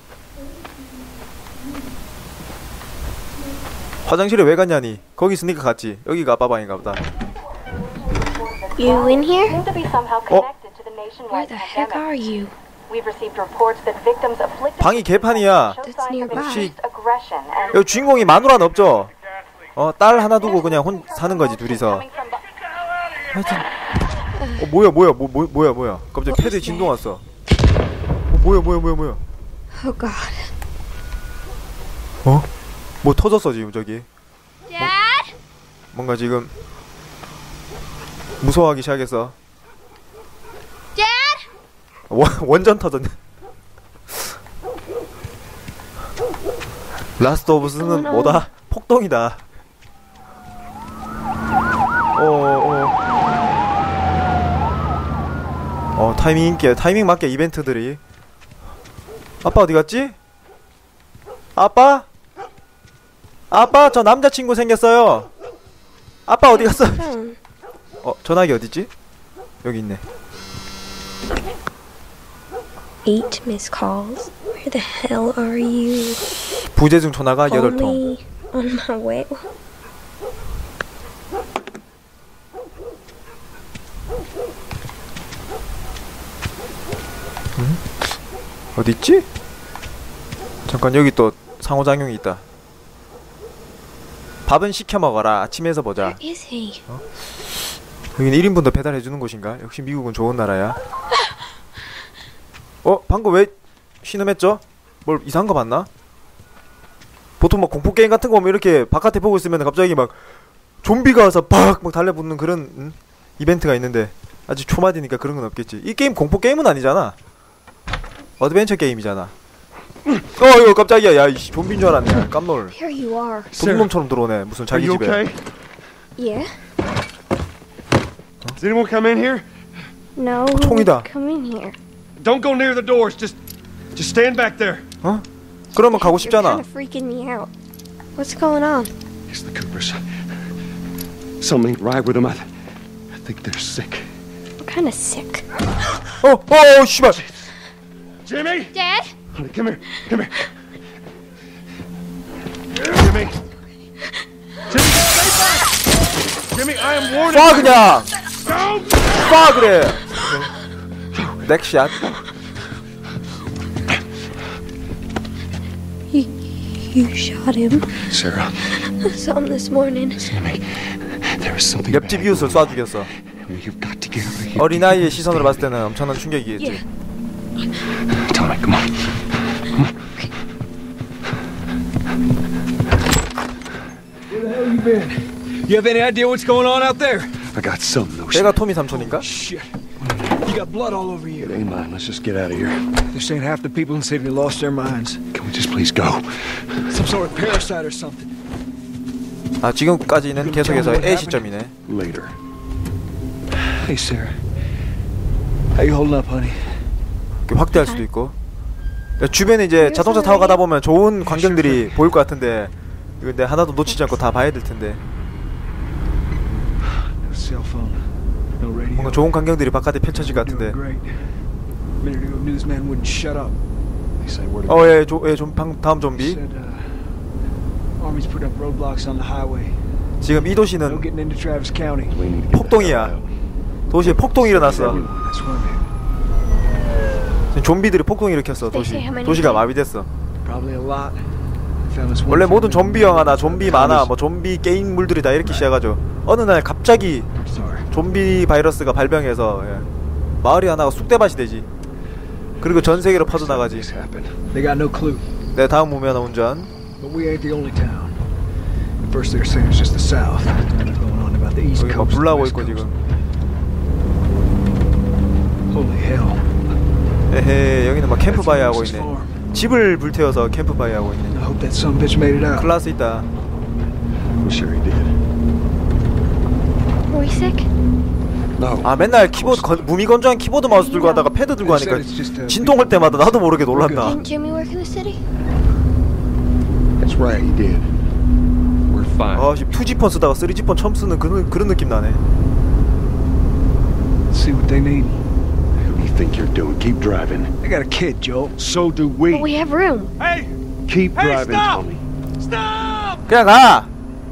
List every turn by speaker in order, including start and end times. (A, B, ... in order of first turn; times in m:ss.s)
0:04.1-0:07.0 A
0:08.3-0:12.0 B
0:08.8-0:09.7 C
0:11.3-0:12.5 C
0:12.9-0:17.8 B
0:14.8-0:15.8 A
0:15.8-0:16.7 C
0:16.3-0:16.7 A
0:17.7-0:19.1 A
0:19.8-0:22.0 A
0:20.4-0:22.4 B
0:23.3-0:23.7 A
0:24.6-0:27.2 A
0:26.3-0:26.9 C
0:28.3-0:29.2 A
0:29.8-0:30.5 C
0:33.0-0:34.1 A
0:34.7-0:35.3 C
0:35.9-0:36.5 A
0:38.4-0:39.4 A
0:41.0-0:41.4 C
0:42.1-0:43.2 A
0:47.2-0:49.4 A
0:47.6-0:48.5 C
0:52.2-0:53.0 A
0:56.0-0:58.0 A
0:59.4-1:00.2 A
1:01.6-1:02.1 A
1:03.5-1:05.3 A
1:06.3-1:07.1 A
1:06.5-1:07.4 C
1:08.0-1:08.9 A
1:09.6-1:10.0 A
1:13.0-1:16.2 C
1:16.8-1:18.0 A
1:17.5-1:19.5 C
1:28.8-1:29.3 A
1:30.7-1:32.4 A
1:34.5-1:36.2 A
1:36.0-1:36.8 C
1:38.2-1:40.8 A
1:42.8-1:43.5 A
1:44.0-1:45.9 A
1:47.4-1:50.2 A
1:50.8-1:57.2 A
1:58.4-1:59.3 A
2:00.4-2:02.7 A
2:02.7-2:03.5 C
2:03.5-2:03.9 D
2:03.6-2:05.2 A
2:04.7-2:05.4 D
2:06.2-2:06.5 C
2:08.6-2:09.5 D
2:10.2-2:11.8 C
2:10.5-2:11.1 A
2:12.2-2:13.4 D
2:14.0-2:14.8 D
2:15.8-2:16.6 A
2:15.8-2:17.5 C
2:18.2-2:18.9 C
2:19.3-2:20.0 D
2:21.4-2:22.5 D
2:23.1-2:24.1 D
2:24.6-2:25.4 C
2:26.2-2:27.2 A
2:28.3-2:28.7 D
2:28.7-2:29.1 C
2:29.3-2:30.5 D
2:32.9-2:33.4 D
2:34.8-2:35.1 E
2:36.6-2:37.5 D
2:37.3-2:38.1 A
2:39.1-2:40.5 A
2:41.4-2:42.1 A
2:46.1-2:48.0 C
2:48.1-2:48.6 D
2:49.0-2:50.2 C
2:50.1-2:55.7 D
2:51.9-2:53.1 A
2:54.6-2:56.8 A
2:58.2-2:59.1 D
3:04.3-3:07.4 E
3:07.4-3:08.6 D
3:08.3-3:09.3 A
3:08.9-3:09.8 E
3:10.0-3:10.3 D
3:10.3-3:11.7 E
3:11.4-3:12.9 D
3:13.1-3:15.2 E
3:15.3-3:16.8 D
3:16.9-3:18.3 E
3:19.6-3:21.7 A
3:20.4-3:21.5 E
3:21.9-3:22.4 D
3:23.6-3:24.5 E
3:25.8-3:26.9 E
3:27.5-3:28.4 A
3:27.7-3:28.0 C
3:29.2-3:35.0 A
3:29.8-3:30.6 C
3:31.2-3:31.9 E
3:36.8-3:39.4 E
3:39.0-3:40.8 A
3:40.1-3:41.4 E
3:42.0-3:43.6 E
3:44.2-3:45.0 D
3:44.7-3:46.4 A
3:46.1-3:47.2 E
3:48.0-3:49.8 E
3:50.2-3:51.1 A
3:50.8-3:52.2 E
3:52.1-3:53.2 D
3:52.5-3:53.1 A
3:53.9-3:55.0 A
3:54.0-3:55.1 D
3:54.6-3:55.9 E
3:57.5-4:00.1 A
3:58.7-3:59.7 C
4:00.4-4:01.2 E
4:01.8-4:04.2 E
4:02.3-4:07.3 A
4:05.4-4:05.7 E
4:07.4-4:07.9 E
4:07.9-4:09.9 A
4:10.4-4:11.7 A
4:12.6-4:13.9 A
4:12.6-4:14.4 D
4:14.5-4:15.3 E
4:15.5-4:16.7 A
4:17.0-4:18.2 E
4:19.0-4:22.9 E
4:21.8-4:22.9 A
4:25.7-4:26.5 E
4:27.3-4:31.4 A
4:28.2-4:29.4 E
4:31.3-4:32.7 E
4:32.6-4:33.3 A
4:34.4-4:35.2 D
4:37.1-4:37.7 C
4:38.6-4:39.9 D
4:38.8-4:44.2 A
4:40.7-4:41.3 C
4:41.6-4:44.2 E
4:44.0-4:45.2 C
4:47.0-4:47.9 D
4:48.9-4:49.6 D
4:49.3-4:52.2 A
4:54.3-4:55.2 E
4:55.8-4:57.5 D
4:57.6-4:58.6 E
4:58.6-4:59.5 D
4:59.3-5:00.2 C
5:00.9-5:02.0 D
5:01.2-5:01.8 E
5:03.3-5:03.9 A